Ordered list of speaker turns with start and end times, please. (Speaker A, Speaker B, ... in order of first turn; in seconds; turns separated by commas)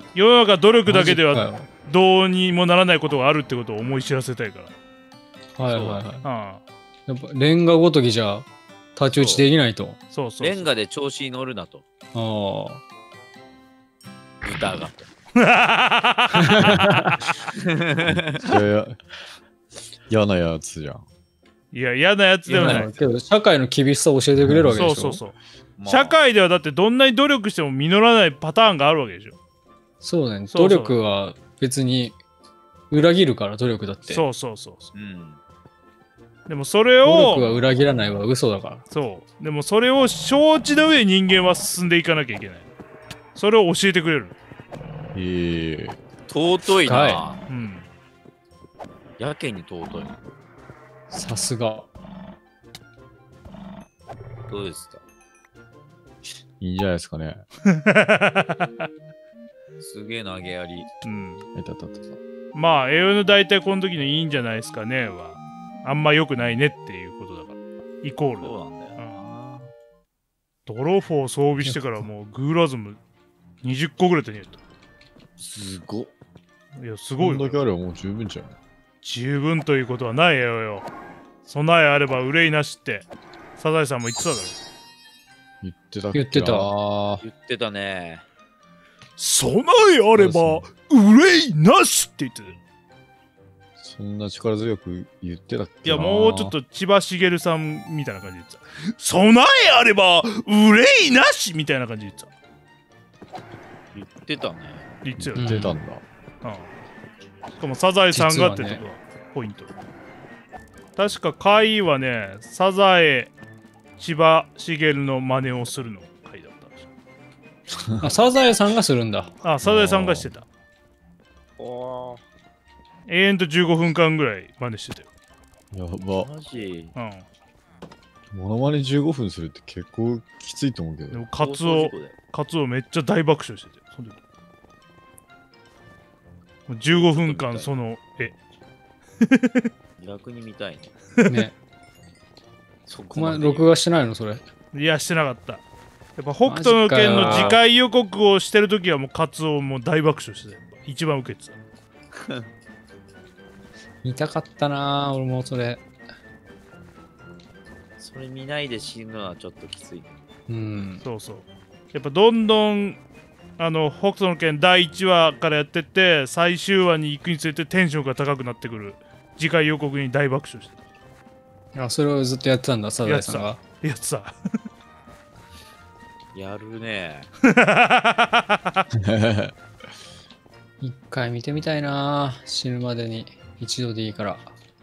Speaker A: 0.1-4.7, Speaker B: 0.9-1.7, Speaker B: 5.5-6.3, Speaker C: 5.7-6.1, Speaker A: 6.2-6.6, Speaker B: 7.1-10.0, Speaker C: 9.1-9.5, Speaker A: 10.1-10.7, Speaker C: 10.4-11.8, Speaker B: 12.1-12.8, Speaker C: 14.4-15.1, Speaker A: 15.4-16.7, Speaker B: 16.4-17.2, Speaker C: 17.6-18.6, Speaker D: 18.1-19.1, Speaker D: 20.1-21.1, Speaker A: 21.7-23.0, Speaker C: 22.5-22.9, Speaker B: 22.5-25.2, Speaker D: 24.4-24.8, Speaker A: 24.7-29.4, Speaker C: 25.8-26.2, Speaker B: 30.0-32.2, Speaker A: 30.5-31.0, Speaker B: 32.9-34.2, Speaker A: 34.1-34.9, Speaker C: 34.9-35.4, Speaker A: 36.5-37.5, Speaker B: 37.0-38.8, Speaker A: 38.9-42.7, Speaker A: 43.4-44.4, Speaker D: 45.1-46.0, Speaker C: 46.3-47.4, Speaker B: 46.8-47.2, Speaker A: 47.5-47.9, Speaker C: 49.2-50.2, Speaker B: 51.1-51.9, Speaker C: 54.5-55.0, Speaker D: 56.6-57.4, Speaker A: 57.7-58.9, Speaker C: 59.8-60.9, Speaker A: 61.0-61.5, Speaker D: 61.5-62.2, Speaker A: 62.5-69.2, Speaker C: 68.4-69.7, Speaker A: 70.7-73.0, Speaker A: 73.6-74.6, Speaker C: 75.4-76.1, Speaker A: 76.8-77.6, Speaker D: 77.2-78.6, Speaker A: 79.0-80.9, Speaker A: 81.5-83.1, Speaker A: 83.6-84.6, Speaker D: 85.6-87.2, Speaker B: 86.1-86.7, Speaker C: 87.2-88.2, Speaker A: 89.2-92.6, Speaker D: 90.1-90.7, Speaker D: 93.8-96.6, Speaker A: 95.8-102.3, Speaker C: 103.9-104.9, Speaker A: 105.0-105.6, Speaker D: 105.2-106.0, Speaker B: 105.4-105.8, Speaker A: 106.4-106.7, Speaker A: 107.6-109.7, Speaker B: 108.1-108.8, Speaker A: 111.0-113.3, Speaker A: 114.0-116.9, Speaker D: 117.7-118.1, Speaker B: 118.0-119.3, Speaker A: 119.4-120.5, Speaker D: 119.6-120.3, Speaker C: 121.6-122.2, Speaker A: 123.1-125.1, Speaker D: 125.7-126.3, Speaker C: 126.2-126.9, Speaker A: 127.0-127.2, Speaker D: 128.3-131.2, Speaker A: 131.1-134.2, Speaker C: 131.4-132.2, Speaker A: 136.7-138.4, Speaker C: 137.1-137.7, Speaker A: 139.2-139.7, Speaker C: 140.0-140.9, Speaker B: 141.3-141.6, Speaker C: 142.9-143.8, Speaker B: 143.1-144.4, Speaker A: 144.7-145.6, Speaker A: 146.2-151.6, Speaker B: 146.4-147.6, Speaker C: 147.1-147.6, Speaker C: 152.2-152.5, Speaker B: 154.0-155.8, Speaker C: 158.0-160.1, Speaker B: 160.5-161.0, Speaker A: 161.0-163.0, Speaker A: 163.6-170.8, Speaker B: 171.7-173.6, Speaker A: 173.1-174.6, Speaker C: 176.3-177.3, Speaker A: 177.5-178.8, Speaker D: 179.0-179.5, Speaker B: 180.8-184.5